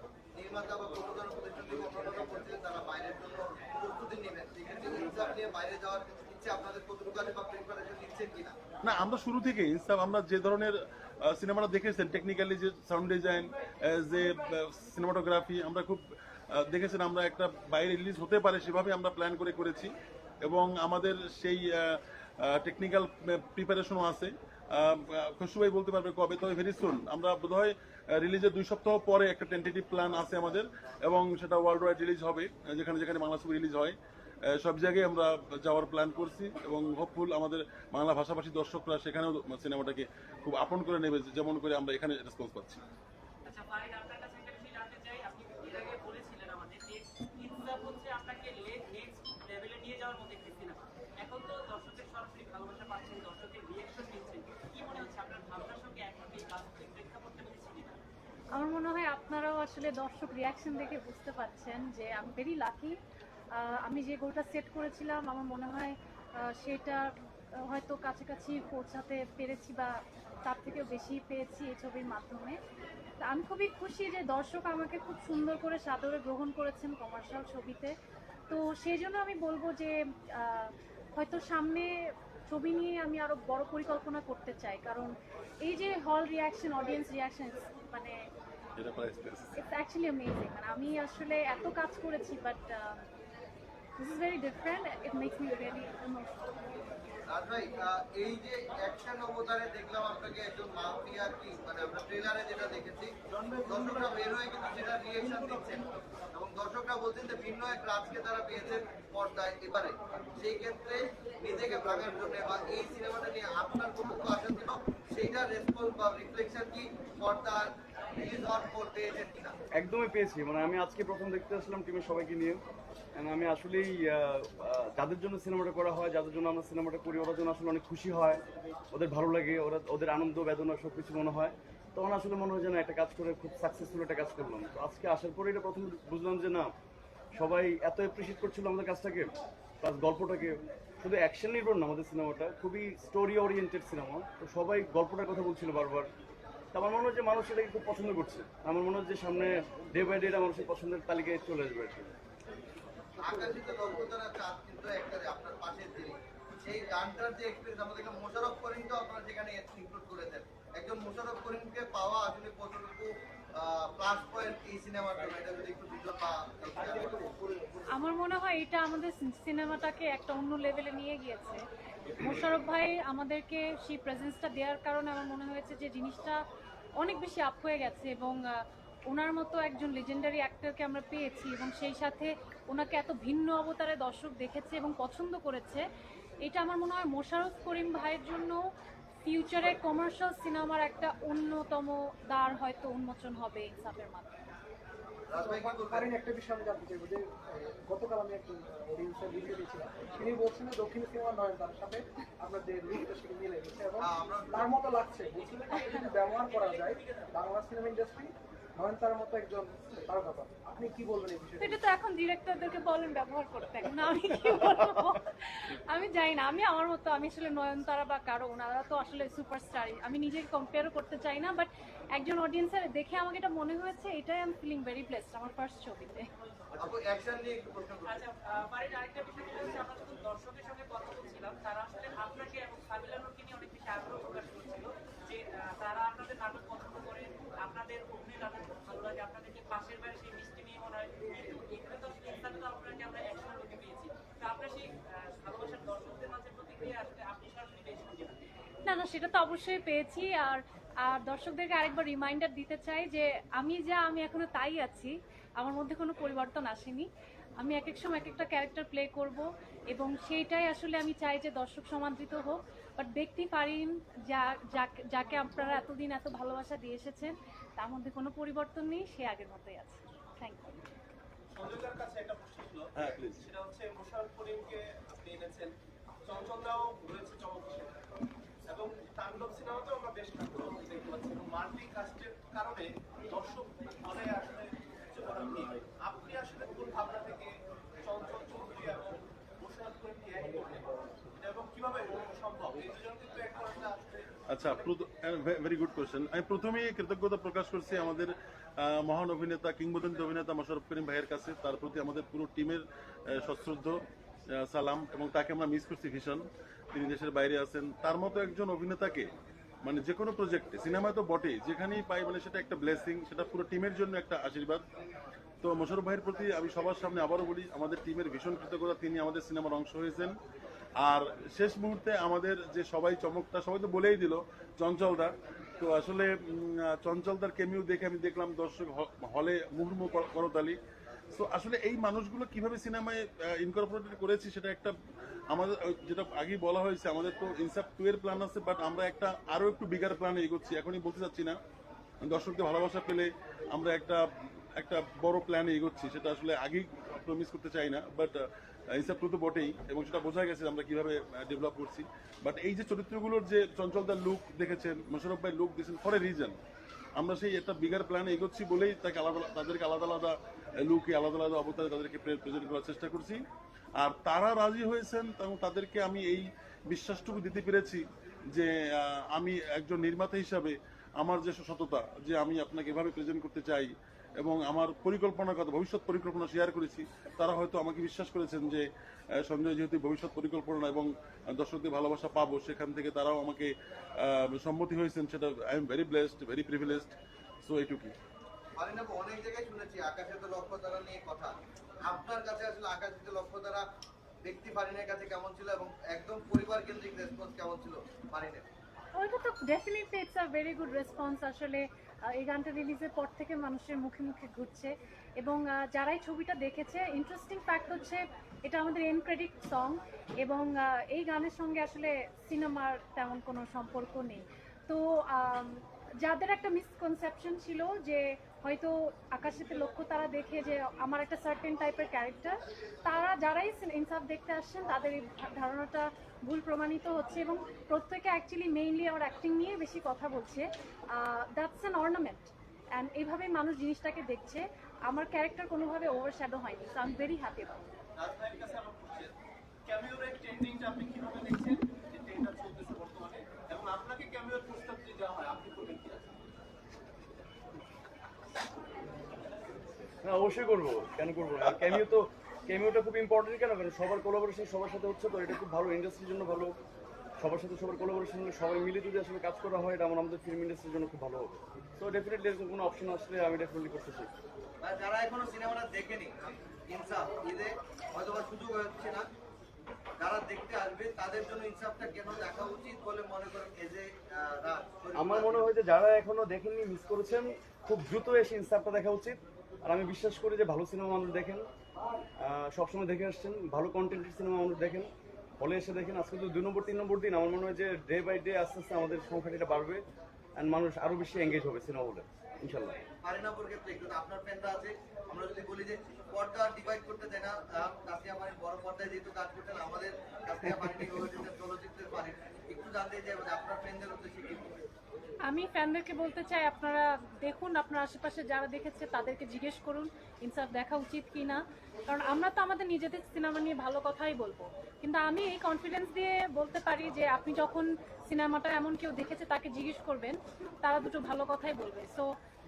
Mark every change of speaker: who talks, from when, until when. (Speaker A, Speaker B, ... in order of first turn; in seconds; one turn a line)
Speaker A: 0.3-8.6
Speaker B: 8.8-34.0
Speaker B: 34.5-42.8
Speaker C: 43.5-58.0
Speaker D: 58.5-63.0
Speaker D: 63.5-72.6
Speaker D: 73.2-77.9
Speaker D: 78.5-88.3
Speaker B: 88.8-89.5
Speaker D: 89.6-93.1
Speaker D: 94.0-96.7
Speaker A: 97.3-119.5
Speaker E: 103.3-105.8
Speaker F: 119.8-122.6
Speaker F: 123.2-128.4
Speaker F: 128.9-136.7
Speaker F: 137.3-146.1
Speaker F: 146.7-152.1
Speaker A: 153.2-167.3
Speaker G: 166.8-167.8
Speaker D: 167.9-171.6
Speaker D: 172.2-176.4
Speaker D: 177.0-185.8
Speaker D: 186.4-188.6
Speaker D: 189.2-194.3
Speaker A: 195.3-196.1
Speaker G: 195.4-211.8
Speaker A: 204.0-204.6
Speaker C: 205.4-207.0
Speaker D: 211.6-226.3
Speaker A: 226.8-228.2
Speaker C: 228.1-248.4
Speaker D: 248.8-257.1
Speaker D: 257.6-270.8
Speaker E: 271.5-275.7
Speaker B: 273.0-273.5
Speaker E: 276.2-278.0
Speaker E: 278.7-294.9
Speaker B: 294.5-304.0
Speaker B: 304.5-309.3
Speaker B: 309.8-314.8
Speaker B: 315.6-320.4
Speaker B: 321.0-330.8
Speaker B: 331.3-334.9
Speaker B: 335.5-341.6
Speaker B: 342.2-344.2
Speaker B: 344.8-356.6
Speaker B: 357.2-363.4
Speaker B: 364.0-378.9
Speaker B: 379.4-387.1
Speaker B: 387.6-388.1
Speaker A: 388.8-391.5
Speaker A: 392.1-393.8
Speaker A: 394.4-398.7
Speaker D: 399.1-437.9
Speaker E: 438.2-439.3
Speaker E: 439.9-446.3
Speaker F: 450.2-456.8
Speaker F: 457.4-464.3
Speaker A: 464.8-469.3
Speaker A: 470.2-475.6
Speaker F: 475.1-481.7
Speaker F: 482.5-485.1
Speaker F: 485.6-490.0
Speaker F: 490.6-493.0
Speaker A: 493.2-504.9
Speaker D: 505.5-522.2